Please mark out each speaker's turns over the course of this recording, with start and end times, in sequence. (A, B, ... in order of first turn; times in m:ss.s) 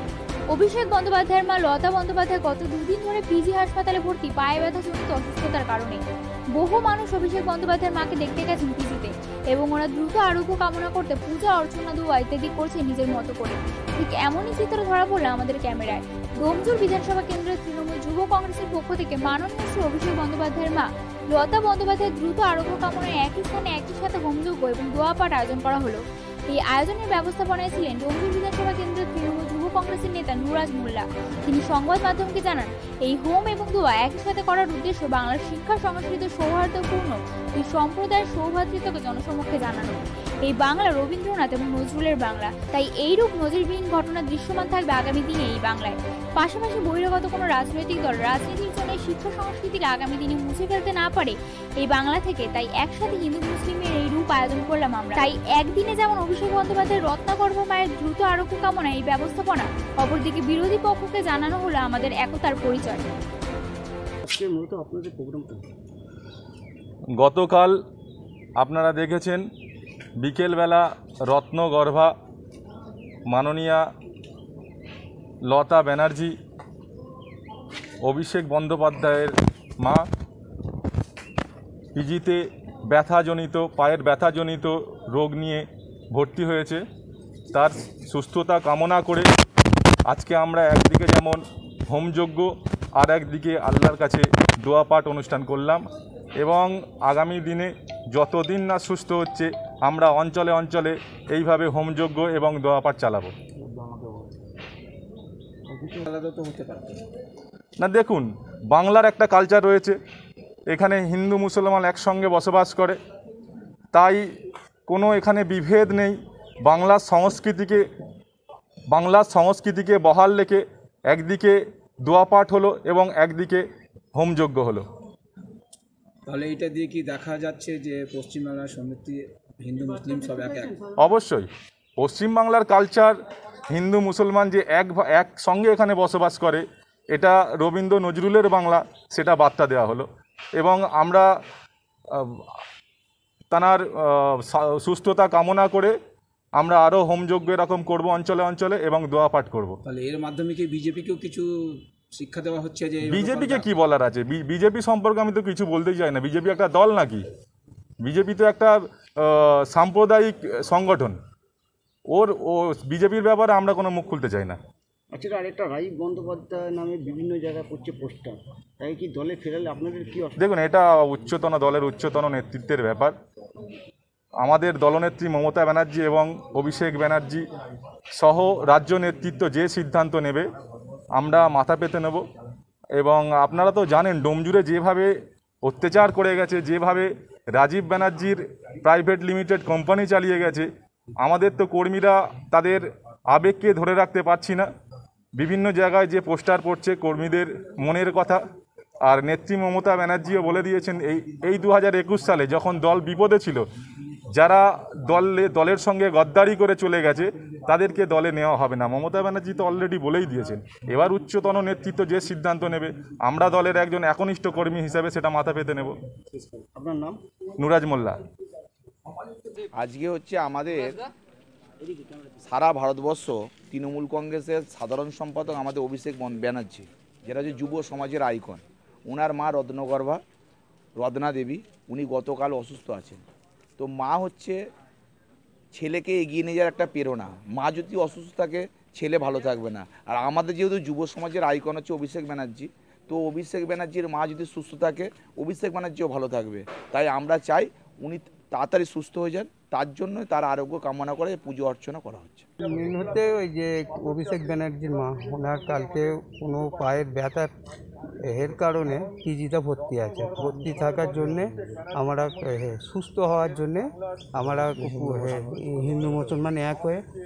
0:00.5-0:06.0 A
0:06.5-1:03.0 A
1:04.2-1:05.6 B
1:07.2-1:07.7 C
1:08.6-1:09.4 C
1:10.2-1:12.1 C
1:13.3-1:13.8 C
1:15.4-1:16.3 C
1:18.0-1:20.0 C
1:21.9-1:26.8 C
1:27.5-1:29.3 C
1:30.1-1:35.8 C
1:36.4-1:43.3 C
1:43.6-1:44.3 B
1:45.7-1:46.0 B
1:46.0-1:47.0 D
1:47.8-1:50.0 C
1:50.7-1:53.0 C
1:53.9-1:54.2 C
1:54.9-1:57.8 C
1:58.9-2:04.8 C
2:06.3-2:10.9 D
2:11.0-2:13.2 C
2:13.7-2:21.3 C
2:22.1-2:22.6 C
2:23.5-2:25.9 C
2:26.6-2:29.8 C
2:29.8-2:33.6 D
2:33.1-2:37.2 C
2:38.0-2:41.2 C
2:42.1-2:44.6 C
2:45.1-2:50.4 B
2:50.4-2:53.2 C
2:54.4-2:57.4 C
2:58.1-3:00.5 C
3:01.1-3:02.2 C
3:03.0-3:05.1 C
3:05.6-3:14.7 C
3:15.4-3:18.4 C
3:19.0-3:23.6 C
3:24.3-3:36.0 C
3:36.7-3:37.2 B
3:37.6-3:38.2 C
3:39.7-3:41.0 E
3:41.8-3:42.3 B
3:42.4-3:50.2 E
3:51.0-3:53.2 E
3:53.8-3:54.6 E
3:55.7-4:12.5 E
4:12.6-4:17.5 F
4:18.3-4:27.0 F